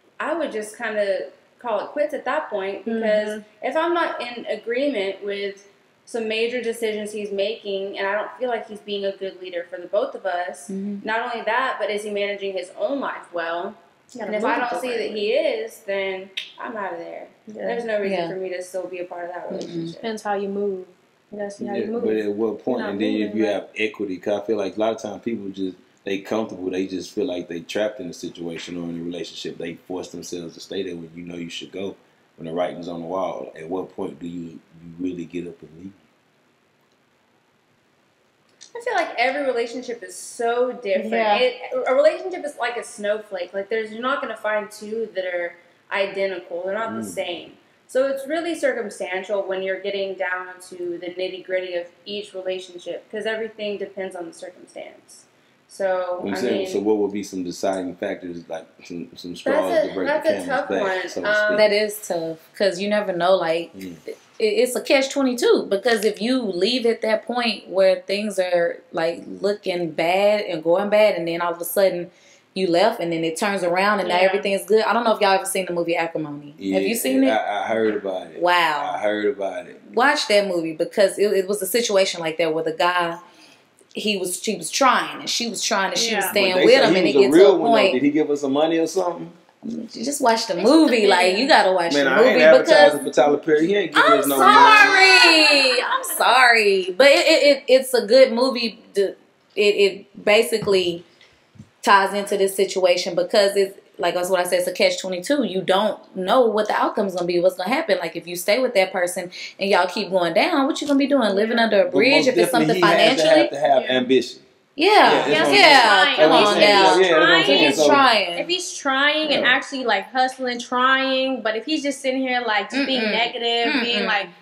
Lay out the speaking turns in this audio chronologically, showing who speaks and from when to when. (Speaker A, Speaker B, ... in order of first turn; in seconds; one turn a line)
Speaker A: 0.2-20.1
Speaker B: 2.9-3.4
Speaker C: 10.7-11.0
Speaker B: 14.1-15.3
Speaker B: 17.5-17.9
Speaker C: 18.0-18.4
Speaker C: 19.5-19.9
Speaker B: 20.0-23.6
Speaker D: 21.6-36.0
Speaker A: 38.7-56.9
Speaker B: 40.9-41.5
Speaker D: 46.9-47.2
Speaker D: 56.2-61.7
Speaker A: 59.4-61.7
Speaker C: 61.5-77.4
Speaker D: 63.7-64.0
Speaker A: 74.0-74.5
Speaker D: 76.6-79.8
Speaker C: 78.3-79.0
Speaker C: 79.9-83.2
Speaker C: 84.0-88.0
Speaker B: 86.0-86.4
Speaker D: 86.3-89.4
Speaker C: 89.6-93.0
Speaker A: 90.6-91.6
Speaker D: 91.9-95.1
Speaker C: 93.9-101.0
Speaker A: 94.2-96.1
Speaker C: 101.8-113.5
Speaker B: 111.3-111.7
Speaker D: 111.9-114.4
Speaker B: 113.7-114.1
Speaker C: 114.8-118.5
Speaker D: 115.0-118.1
Speaker B: 115.1-124.3
Speaker D: 119.2-119.6
Speaker C: 122.7-124.3